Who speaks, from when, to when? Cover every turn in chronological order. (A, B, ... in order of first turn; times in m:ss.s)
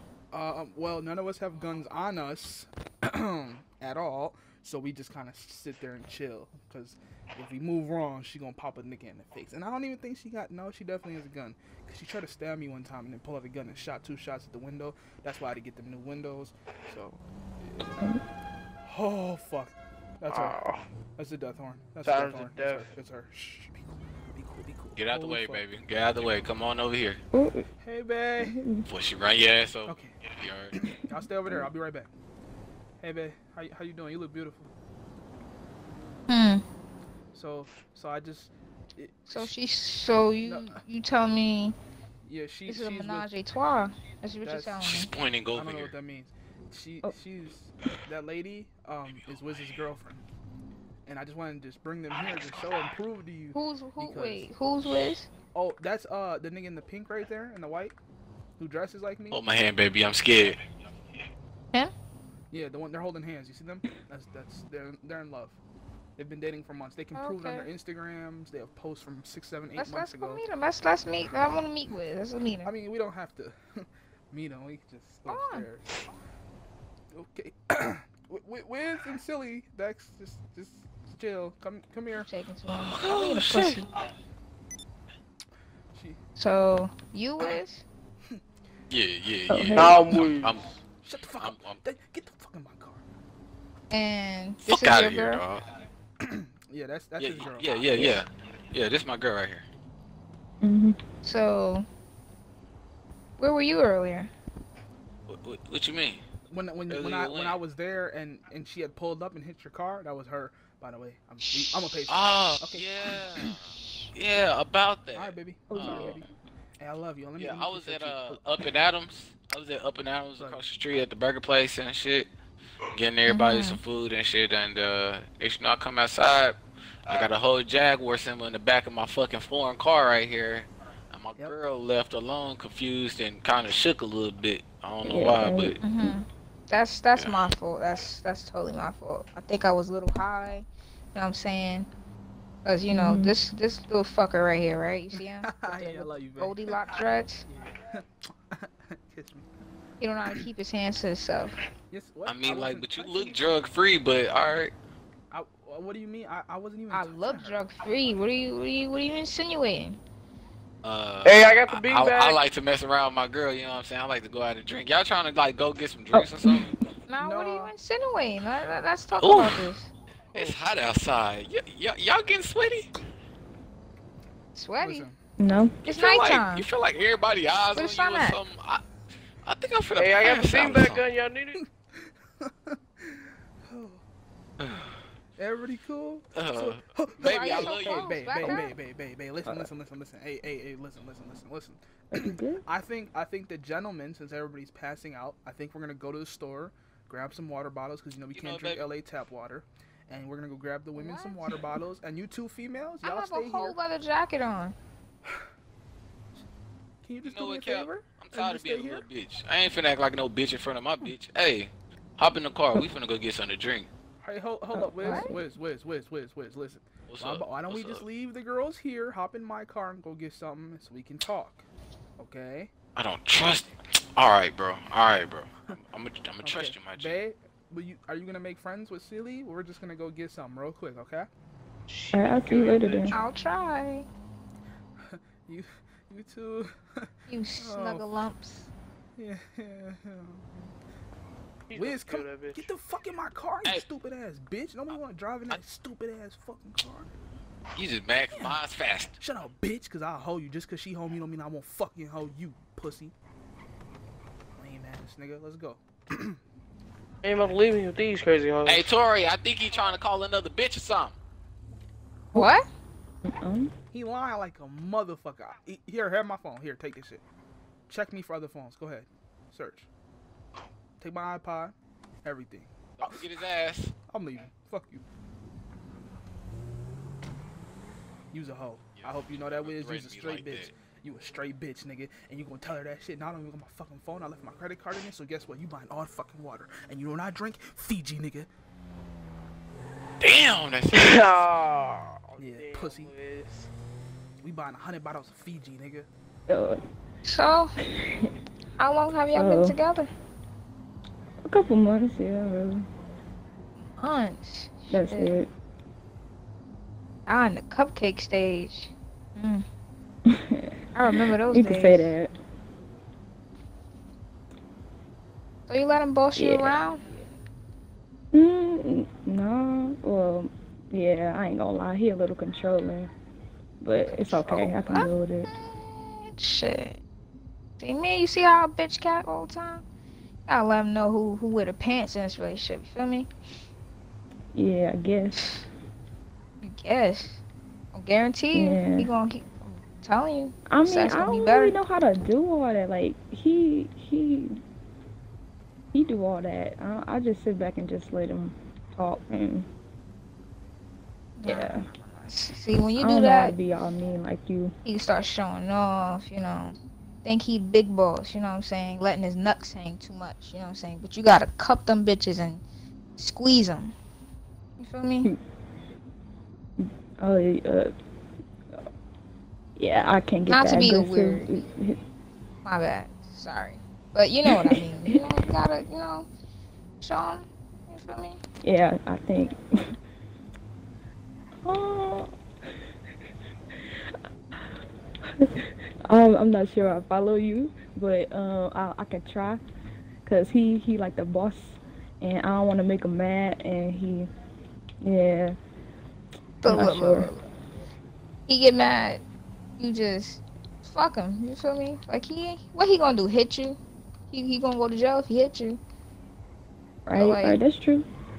0:00.3-0:17.9 A
0:18.8-0:20.5 A
0:20.3-0:20.8 B
0:21.2-0:25.6 A
0:22.0-0:22.9 B
0:24.9-0:27.2 C
0:27.3-0:27.6 D
0:27.8-0:28.6 A
0:28.4-0:28.8 D
0:28.9-0:30.7 C
0:29.8-0:30.2 A
0:30.7-0:32.1 A
0:33.0-0:34.7 A
0:36.3-0:36.6 E
0:37.3-0:39.5 A
0:39.3-0:41.8 E
0:40.4-0:40.8 A
0:42.2-0:43.3 A
0:42.7-0:45.1 E
0:44.4-0:44.9 A
0:44.8-0:45.9 C
0:45.5-0:50.2 A
0:49.0-0:49.7 C
0:51.0-0:54.5 A
0:53.5-0:55.3 E
0:55.5-0:58.0 A
0:58.6-0:59.4 A
0:59.3-1:00.6 C
1:02.5-1:05.6 A
1:06.2-1:10.4 A
1:07.1-1:07.7 E
1:09.8-1:12.7 E
1:12.6-1:16.0 A
1:15.3-1:15.7 E
1:17.1-1:22.2 A
1:22.2-1:23.9 E
1:22.7-1:23.8 C
1:25.9-1:26.2 A
1:26.4-1:27.8 E
1:28.9-1:30.7 C
1:29.5-1:30.0 D
1:29.7-1:30.6 B
1:31.0-1:33.0 A
1:31.4-1:31.8 C
1:33.9-1:35.4 E
1:34.6-1:35.6 C
1:36.3-1:37.8 A
1:37.2-1:39.6 C
1:40.6-1:41.0 D
1:41.2-1:41.8 E
1:43.4-1:44.3 E
1:45.3-1:46.2 C
1:46.5-1:52.9 A
1:46.9-1:47.6 C
1:52.1-1:56.2 C
1:55.1-1:56.2 A
1:55.7-1:56.3 D
1:56.8-1:58.4 A
1:57.4-2:02.3 C
2:00.4-2:00.6 A
2:02.9-2:15.8 C
2:03.3-2:03.8 E
2:15.0-2:16.2 D
2:15.8-2:21.9 E
2:22.6-2:27.4 E
2:22.9-2:23.3 D
2:25.2-2:26.6 A
2:27.5-2:29.5 A
2:30.0-2:31.5 E
2:31.9-2:33.5 A
2:32.2-2:34.7 C
2:35.3-2:37.6 A
2:36.9-2:40.0 E
2:40.8-2:46.6 C
2:41.2-2:42.4 B
2:46.1-2:46.7 D
2:47.1-2:49.9 E
2:47.2-2:47.7 A
2:49.2-2:49.7 C
2:50.3-2:50.6 A
2:50.3-2:52.9 C
2:54.5-2:55.1 E
2:54.8-2:55.2 A
2:55.4-2:55.8 D
2:55.8-2:56.7 E
2:55.8-2:58.8 C
2:57.8-2:58.4 E
2:59.4-3:01.1 C
2:59.9-3:01.6 B
3:02.4-3:02.8 A
3:03.7-3:04.0 A
3:04.6-3:04.9 C
3:05.4-3:23.8 A
3:06.3-3:08.1 C
3:07.2-3:08.7 E
3:08.4-3:08.6 D
3:12.1-3:12.6 D
3:18.3-3:18.8 C
3:20.9-3:21.6 E
3:23.0-3:24.7 E
3:27.0-3:29.0 A
3:27.2-3:33.9 C
3:34.2-3:41.6 A
3:34.7-3:35.4 D
3:35.0-3:35.3 E
3:37.1-3:38.0 C
3:42.2-3:42.7 A
3:43.0-3:47.2 C
3:46.4-3:51.3 A
3:51.9-3:53.2 B
3:52.1-3:53.2 D
3:53.1-3:54.1 E
3:55.0-3:57.1 A
3:57.3-3:58.7 E
3:57.6-3:58.2 A
3:59.2-4:00.6 A
4:01.7-4:02.7 B
4:01.7-4:07.1 A
4:07.7-4:09.2 C
4:09.2-4:13.1 A
4:14.6-4:16.4 A
4:17.2-4:18.9 B
4:18.6-4:21.2 C
4:22.3-4:22.6 E
4:23.2-4:23.7 D
4:23.9-4:27.2 A
4:27.9-4:29.9 A
4:31.0-4:33.2 A
4:33.0-4:33.9 C
4:34.1-4:35.0 A
4:38.3-4:48.5 A
4:38.9-4:40.7 C
4:50.2-4:51.4 C
4:50.9-4:53.7 B
4:52.4-4:53.1 A
4:54.4-4:56.1 A
4:56.5-4:56.8 D
4:57.2-4:57.7 E
4:58.0-4:58.3 D
4:58.8-5:00.1 E
4:59.3-4:59.8 D
5:01.4-5:02.9 D
5:04.0-5:05.3 E
5:04.9-5:05.5 D
5:07.3-5:09.6 E
5:10.3-5:10.7 D
5:10.9-5:12.1 E
5:11.4-5:12.3 D
5:15.7-5:17.0 E
5:16.4-5:16.8 D
5:18.3-5:23.1 D
5:23.8-5:25.5 D
5:24.1-5:27.0 E
5:27.8-5:29.8 E
5:30.5-5:33.3 E
5:34.5-5:35.4 D
5:35.4-5:35.6 E
5:36.6-5:37.4 E
5:37.9-5:41.8 E
5:38.5-5:39.1 D
5:40.7-5:44.6 D
5:45.9-5:49.7 D
5:51.4-5:53.6 E
5:51.4-5:51.9 D
5:53.0-5:54.7 D
5:54.8-6:02.6 E
6:03.2-6:03.9 E
6:04.8-6:05.3 E
6:06.8-6:07.9 D
6:09.8-6:12.0 D
6:10.5-6:11.6 E
6:12.6-6:16.3 E
6:14.5-6:15.3 D
6:17.0-6:18.4 E
6:18.6-6:19.6 D
6:21.6-6:22.3 D
6:25.4-6:29.6 D
6:30.2-6:34.3 D
6:35.0-6:35.6 D
6:36.6-6:37.4 E
6:36.6-6:37.3 D
6:38.5-6:39.2 E
6:39.8-6:43.8 E
6:44.3-6:45.8 E
6:47.0-6:48.0 D
6:47.1-6:47.6 E